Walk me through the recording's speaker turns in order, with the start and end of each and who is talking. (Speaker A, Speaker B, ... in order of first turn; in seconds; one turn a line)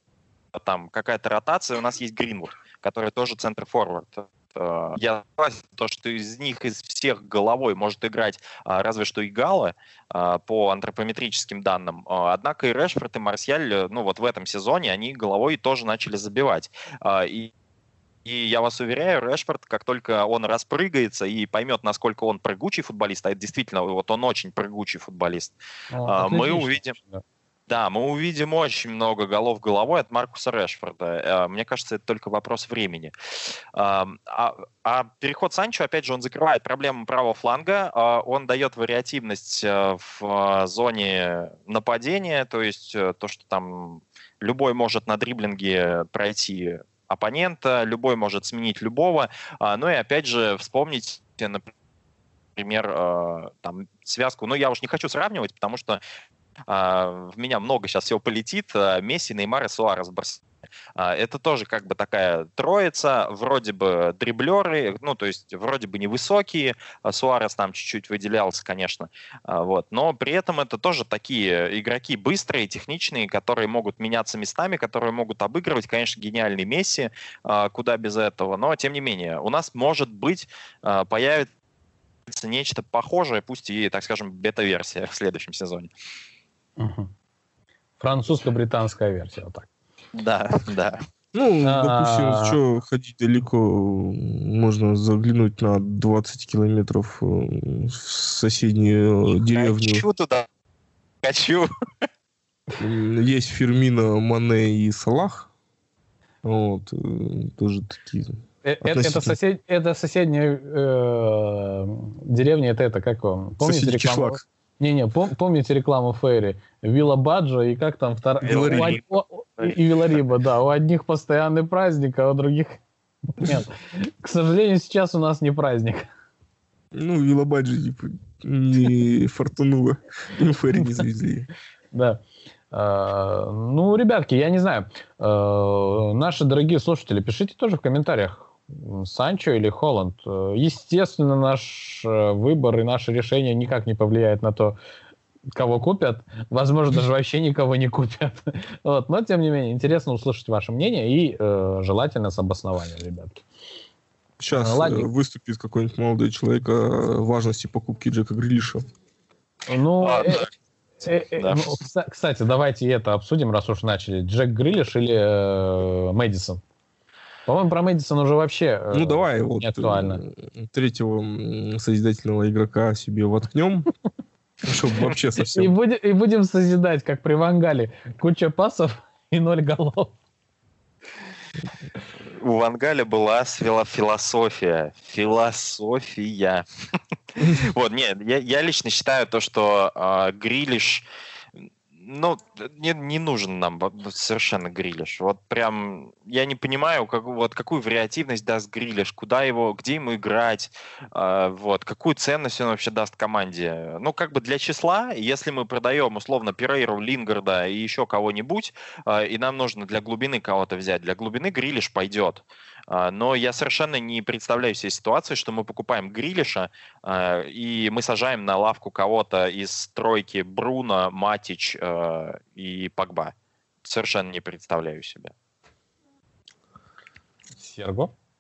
Speaker A: 0.5-17.5
Speaker A: 18.2-25.6
Speaker B: 25.9-27.2
Speaker A: 26.1-27.0
Speaker A: 27.7-33.1
Speaker A: 33.7-51.7
Speaker A: 52.6-56.0
Speaker A: 56.7-60.4
Speaker A: 61.0-81.5
Speaker A: 82.3-85.9
Speaker B: 86.8-87.1
Speaker B: 88.0-89.7
Speaker A: 90.1-91.0
Speaker C: 91.3-100.0
Speaker B: 91.6-92.6
Speaker A: 99.4-100.5
Speaker A: 101.2-101.7
Speaker C: 102.8-105.5
Speaker C: 106.4-109.4
Speaker B: 108.7-126.1
Speaker C: 113.6-114.4
Speaker C: 118.4-119.0
Speaker A: 118.5-119.0
Speaker C: 126.9-131.5
Speaker B: 131.9-132.2
Speaker B: 132.7-144.8
Speaker B: 145.6-153.4
Speaker C: 154.4-158.8
Speaker B: 154.5-155.1
Speaker B: 159.7-160.5
Speaker A: 160.0-160.5
Speaker B: 161.0-166.6
Speaker A: 161.4-161.8
Speaker B: 167.5-170.2
Speaker C: 168.9-173.9
Speaker C: 174.6-175.7
Speaker B: 175.4-180.1
Speaker A: 182.4-186.7
Speaker A: 187.3-191.0
Speaker A: 191.9-225.3
Speaker B: 227.6-228.1